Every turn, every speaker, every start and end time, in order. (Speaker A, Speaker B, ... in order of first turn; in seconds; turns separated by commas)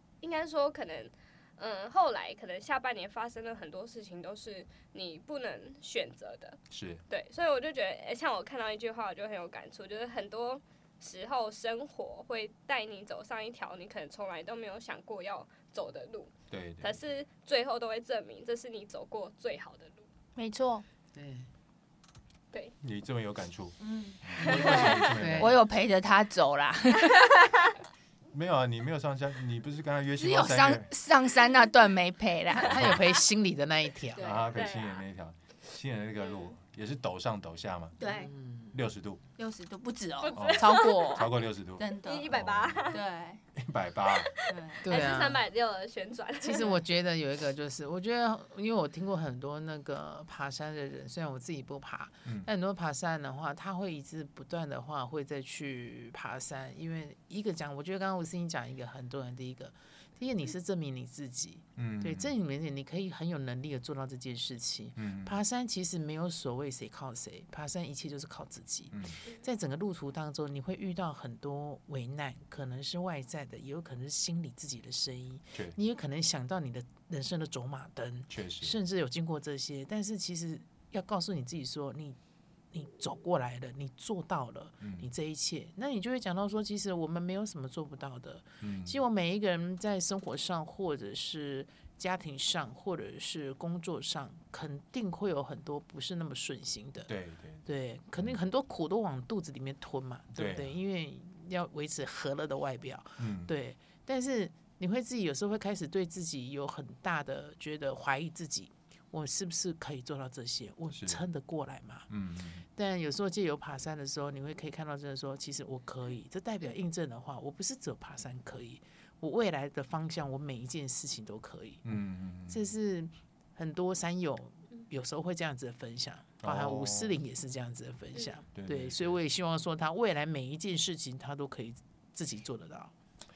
Speaker A: 0.2-20.1, Speaker B: 6.7-7.0, Speaker B: 16.5-17.1, Speaker C: 20.4-20.9, Speaker D: 21.1-21.5, Speaker B: 22.8-25.6, Speaker D: 23.8-25.6, Speaker A: 24.4-25.0, Speaker C: 24.5-27.5, Speaker B: 28.3-30.9, Speaker C: 30.2-33.0, Speaker D: 32.5-34.5, Speaker B: 32.6-33.0, Speaker B: 34.2-38.0, Speaker A: 34.5-35.0, Speaker A: 36.2-36.5, Speaker C: 38.0-38.3, Speaker D: 38.0-38.8, Speaker B: 38.7-39.2, Speaker C: 39.4-42.3, Speaker A: 40.2-41.3, Speaker B: 40.3-42.9, Speaker A: 42.0-43.0, Speaker C: 42.9-43.4, Speaker B: 43.6-44.4, Speaker C: 44.5-44.9, Speaker A: 44.8-46.8, Speaker D: 44.8-45.4, Speaker D: 46.4-82.2, Speaker B: 61.8-62.4, Speaker B: 65.0-65.4, Speaker B: 68.9-69.2, Speaker B: 78.3-78.8, Speaker D: 82.7-97.1, Speaker B: 84.8-85.1, Speaker B: 88.6-89.0, Speaker B: 97.1-98.4, Speaker D: 97.7-112.1, Speaker B: 100.4-100.8, Speaker B: 103.2-103.5, Speaker B: 110.9-111.2, Speaker B: 112.1-112.7, Speaker D: 112.8-121.8, Speaker B: 121.8-122.7, Speaker D: 122.5-132.9, Speaker B: 126.4-127.2, Speaker B: 128.6-129.2